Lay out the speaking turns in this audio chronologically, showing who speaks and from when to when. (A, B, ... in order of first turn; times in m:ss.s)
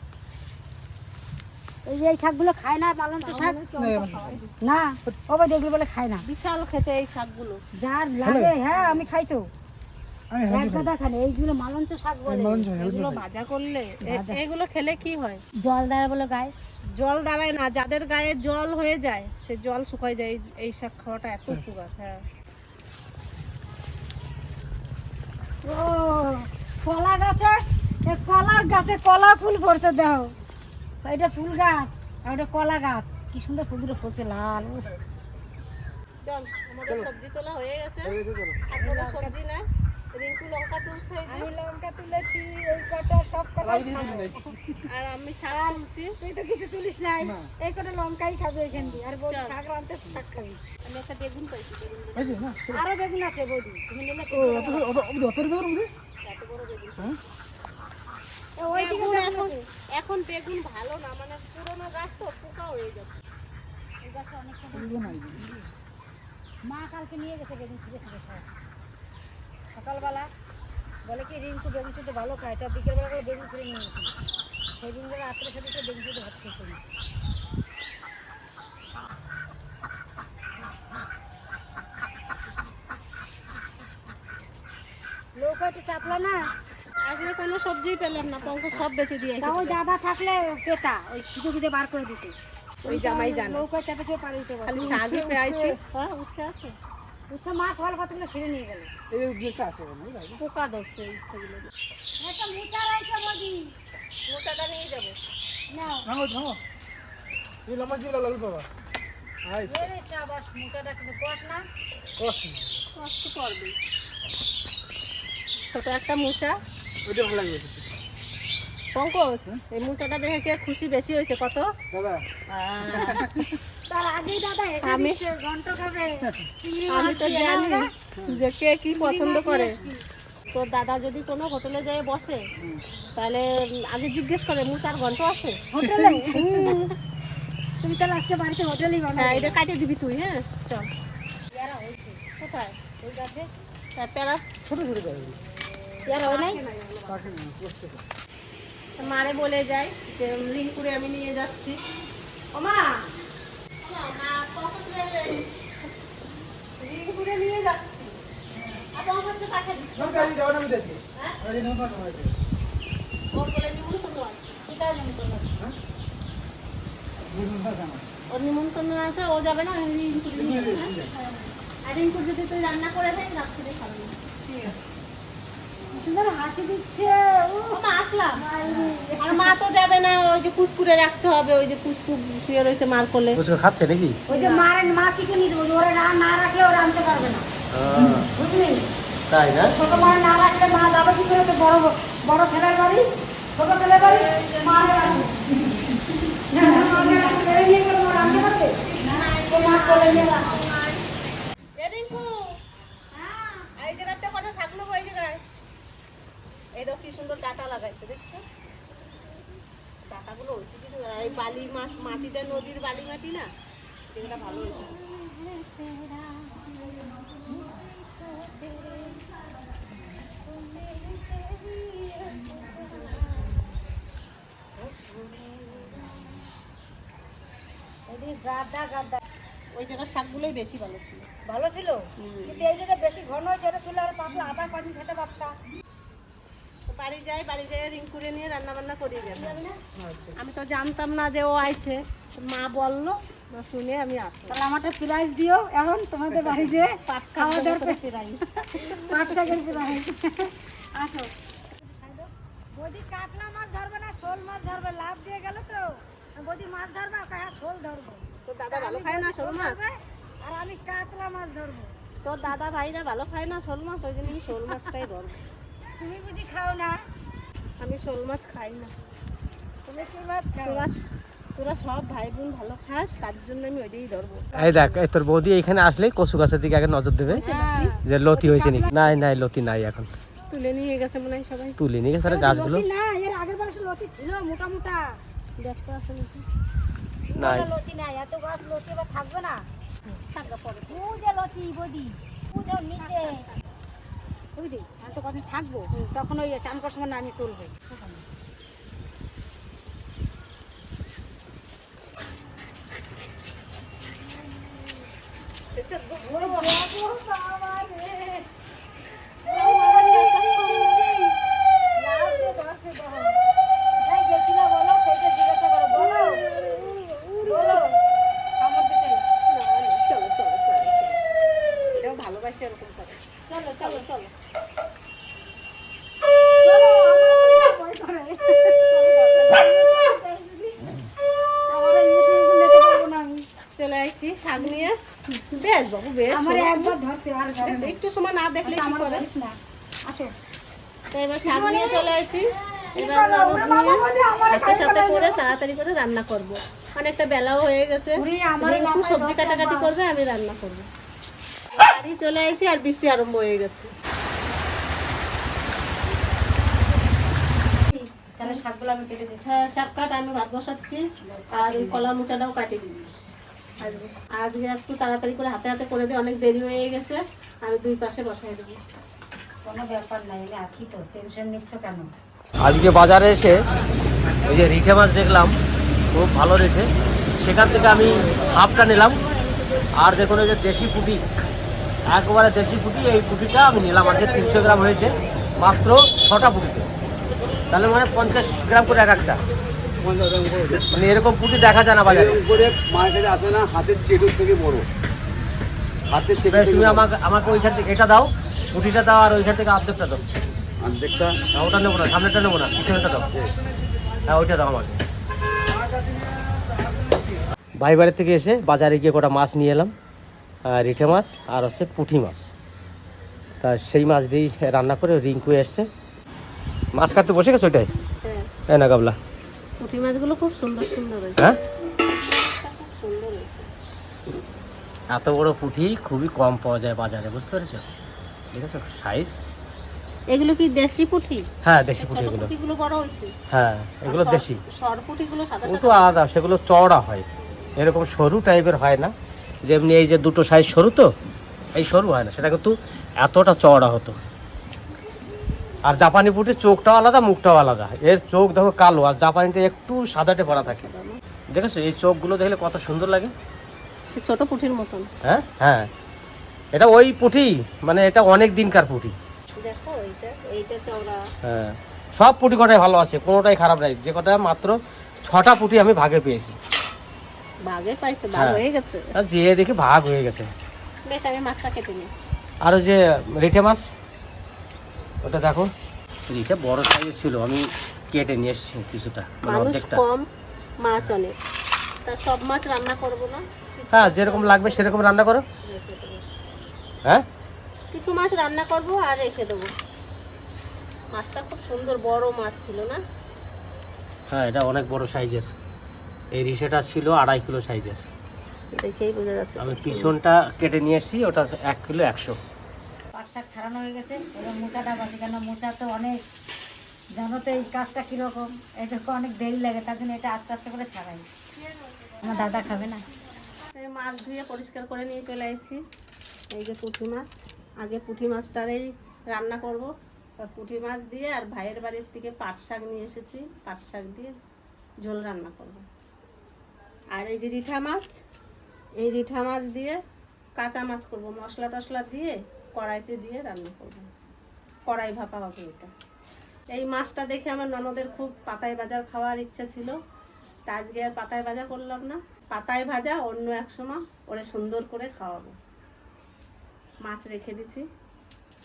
0:01.8-0:03.6 A
0:03.2-0:04.5 B
0:03.7-0:04.4 C
0:04.6-0:06.2 A
0:06.2-0:07.6 B
0:07.8-0:09.4 A
0:08.2-0:08.5 C
0:10.3-0:10.9 C
0:10.5-0:12.7 A
0:12.3-0:13.2 C
0:12.8-0:15.4 B
0:14.0-0:14.4 A
0:15.6-0:16.5 A
0:17.0-0:22.2 B
0:25.6-0:30.3 A
0:31.0-0:35.0 A
0:36.2-0:38.2 B
0:38.0-0:38.6 C
0:38.7-0:39.6 B
0:38.8-0:39.3 A
0:40.1-0:41.5 B
0:41.3-0:44.3 A
0:43.6-0:44.8 C
0:43.9-0:44.3 B
0:44.8-0:46.1 B
0:45.5-0:50.6 A
0:47.2-0:47.5 C
0:49.3-0:49.6 B
0:50.8-0:52.4 B
0:52.1-0:52.8 C
0:52.7-0:54.9 A
0:54.3-0:55.9 C
0:56.2-0:57.2 B
0:58.6-0:59.6 A
0:58.7-1:03.2 B
1:04.0-1:05.6 A
1:04.7-1:05.7 C
1:06.7-1:08.5 A
1:09.7-1:10.3 A
1:11.0-1:14.1 A
1:14.7-1:16.8 A
1:25.4-1:26.4 A
1:27.0-1:29.8 B
1:29.4-1:35.0 A
1:32.8-1:33.6 B
1:34.7-1:36.7 B
1:34.8-1:35.8 C
1:37.3-1:38.9 A
1:39.1-1:40.4 C
1:40.4-1:41.7 B
1:42.2-1:43.7 A
1:44.3-1:45.2 B
1:45.7-1:46.1 A
1:46.0-1:46.6 C
1:47.7-1:48.7 C
1:49.4-1:49.9 C
1:49.6-1:51.6 A
1:52.2-1:52.8 C
1:52.9-1:53.7 B
1:55.7-1:56.6 B
1:57.0-1:57.9 C
1:58.9-2:01.7 B
2:01.9-2:02.2 C
2:02.5-2:03.3 B
2:02.9-2:03.6 C
2:03.9-2:07.9 A
2:04.8-2:05.2 B
2:06.9-2:09.7 B
2:09.0-2:10.0 A
2:10.5-2:12.4 B
2:13.2-2:15.6 B
2:15.7-2:16.5 A
2:15.8-2:16.8 C
2:16.3-2:16.9 B
2:17.8-2:19.6 A
2:19.2-2:20.9 B
2:21.5-2:22.2 A
2:22.4-2:22.8 B
2:23.0-2:23.5 A
2:24.0-2:24.4 B
2:24.6-2:25.4 C
2:26.0-2:26.6 A
2:26.1-2:27.3 B
2:27.1-2:28.0 C
2:29.0-2:31.8 B
2:32.5-2:32.9 B
2:33.8-2:35.5 B
2:36.8-2:38.1 B
2:38.9-2:40.3 B
2:40.0-2:42.3 C
2:43.3-2:44.6 B
2:44.6-2:45.6 A
2:47.3-2:48.1 C
2:48.3-2:54.8 B
2:50.3-2:51.1 C
2:55.9-2:57.8 A
2:57.7-3:03.4 B
2:58.4-2:59.5 A
3:03.3-3:04.2 D
3:04.3-3:04.7 B
3:04.3-3:07.4 A
3:07.7-3:08.3 D
3:08.2-3:08.8 A
3:09.3-3:09.8 D
3:09.7-3:15.9 A
3:09.9-3:10.1 B
3:14.0-3:15.3 B
3:16.5-3:20.5 A
3:16.7-3:17.6 B
3:18.8-3:21.0 B
3:21.8-3:22.5 B
3:23.1-3:23.8 A
3:23.8-3:25.4 B
3:26.8-3:28.4 B
3:30.1-3:33.5 B
3:34.1-3:35.0 B
3:34.3-3:39.2 A
3:39.9-3:41.4 A
3:41.4-3:43.6 B
3:42.3-3:43.6 A
3:44.7-3:46.3 A
3:48.1-3:49.2 A
3:49.7-3:51.3 B
3:51.4-3:55.5 A
3:52.2-3:52.6 B
3:56.9-3:59.6 B
3:59.3-3:59.8 A
4:00.0-4:00.3 C
4:00.4-4:04.6 B
4:04.5-4:08.0 A
4:07.1-4:10.0 B
4:08.6-4:21.9 A
4:18.5-4:19.8 B
4:22.2-4:25.4 B
4:24.5-4:24.9 A
4:26.0-4:27.0 A
4:27.8-4:28.9 B
4:29.9-4:35.0 B
4:29.9-4:30.9 A
4:34.5-4:37.4 D
4:37.3-4:39.1 A
4:37.4-4:37.9 B
4:38.0-4:40.1 D
4:40.5-4:41.8 B
4:41.8-4:42.8 D
4:42.2-4:45.0 A
4:45.6-4:46.4 B
4:47.3-4:49.6 A
4:47.4-4:47.7 D
4:50.3-4:51.2 B
4:50.9-4:53.4 A
4:53.0-4:53.5 B
4:54.6-4:58.2 A
5:05.7-5:06.8 B
5:06.2-5:08.4 A
5:09.4-5:11.3 A
5:09.5-5:11.1 B
5:12.0-5:13.4 A
5:13.9-5:16.4 A
5:15.9-5:17.8 B
5:17.4-5:18.0 A
5:18.6-5:19.2 A
5:19.5-5:21.2 B
5:22.0-5:24.3 B
5:23.5-5:24.0 A
5:26.6-5:28.8 A
5:28.9-5:30.3 B
5:29.7-5:30.8 A
5:31.7-5:33.4 A
5:33.8-5:37.0 B
5:34.6-5:34.9 A
5:36.3-5:38.0 A
5:37.6-5:39.2 B
5:38.6-5:39.5 A
5:41.1-5:50.9 B
5:41.4-5:42.1 A
5:42.8-5:45.4 A
5:48.2-5:49.9 A
5:51.7-5:53.9 B
5:57.9-5:59.5 A
5:59.4-6:03.1 B
6:01.2-6:02.1 A
6:03.8-6:04.1 A
6:03.8-6:08.8 B
6:09.6-6:12.1 A
6:12.6-6:13.6 D
6:14.4-6:15.5 D
6:16.1-6:19.2 D
6:17.9-6:19.8 B
6:20.0-6:21.2 D
6:22.1-6:26.9 D
6:27.7-6:29.4 D
6:30.0-6:30.8 C
6:30.9-6:32.4 D
6:32.1-6:34.8 E
6:36.1-6:37.0 E
6:36.5-6:40.2 D
6:40.8-6:41.4 E
6:41.5-6:43.3 D
6:43.3-6:43.7 E
6:44.2-6:45.0 D
6:45.7-6:47.4 C
6:47.8-6:49.9 D
6:50.6-6:52.5 D
6:53.6-6:55.9 D
6:56.9-6:57.9 D
6:58.2-6:58.5 B
6:58.7-6:59.2 D
6:59.8-7:01.5 B
7:02.0-7:03.7 B
7:05.1-7:07.8 D
7:08.5-7:09.4 D
7:10.3-7:11.5 B
7:11.6-7:12.5 D
7:12.0-7:13.3 B
7:13.5-7:14.6 D
7:14.0-7:16.2 B
7:15.6-7:17.2 D
7:17.8-7:19.1 D
7:19.6-7:21.1 D
7:21.7-7:24.2 D
7:25.8-7:30.9 D
7:30.5-7:31.2 B
7:31.5-7:33.3 D
7:34.1-7:35.1 B
7:35.2-7:35.9 D
7:36.7-7:39.2 D
7:39.6-7:41.2 B
7:41.4-7:46.6 D
7:47.7-7:49.1 B
7:48.3-7:48.6 D
7:49.1-7:50.5 D
7:51.0-7:52.1 B
7:52.6-7:53.8 D
7:55.2-7:55.7 D
7:56.3-8:00.0 D
7:59.4-8:00.2 B
8:00.8-8:01.3 B
8:02.0-8:05.1 B
8:03.9-8:05.4 D
8:05.6-8:06.2 B
8:07.9-8:09.7 B
8:11.1-8:13.0 B
8:14.3-8:15.5 D
8:16.3-8:18.1 D
8:18.7-8:20.1 B
8:19.6-8:22.4 D
8:23.1-8:26.2 A
8:27.2-8:31.3 A
8:31.5-8:32.8 B
8:32.2-8:33.0 A
8:33.7-8:35.8 B
8:36.5-8:44.3 B
8:45.0-8:45.8 B
8:47.1-8:48.2 B
8:49.0-8:50.0 B
8:50.6-8:54.1 B
8:54.9-8:55.9 B
8:56.7-8:59.9 B
9:00.7-9:05.5 B
9:07.0-9:07.8 B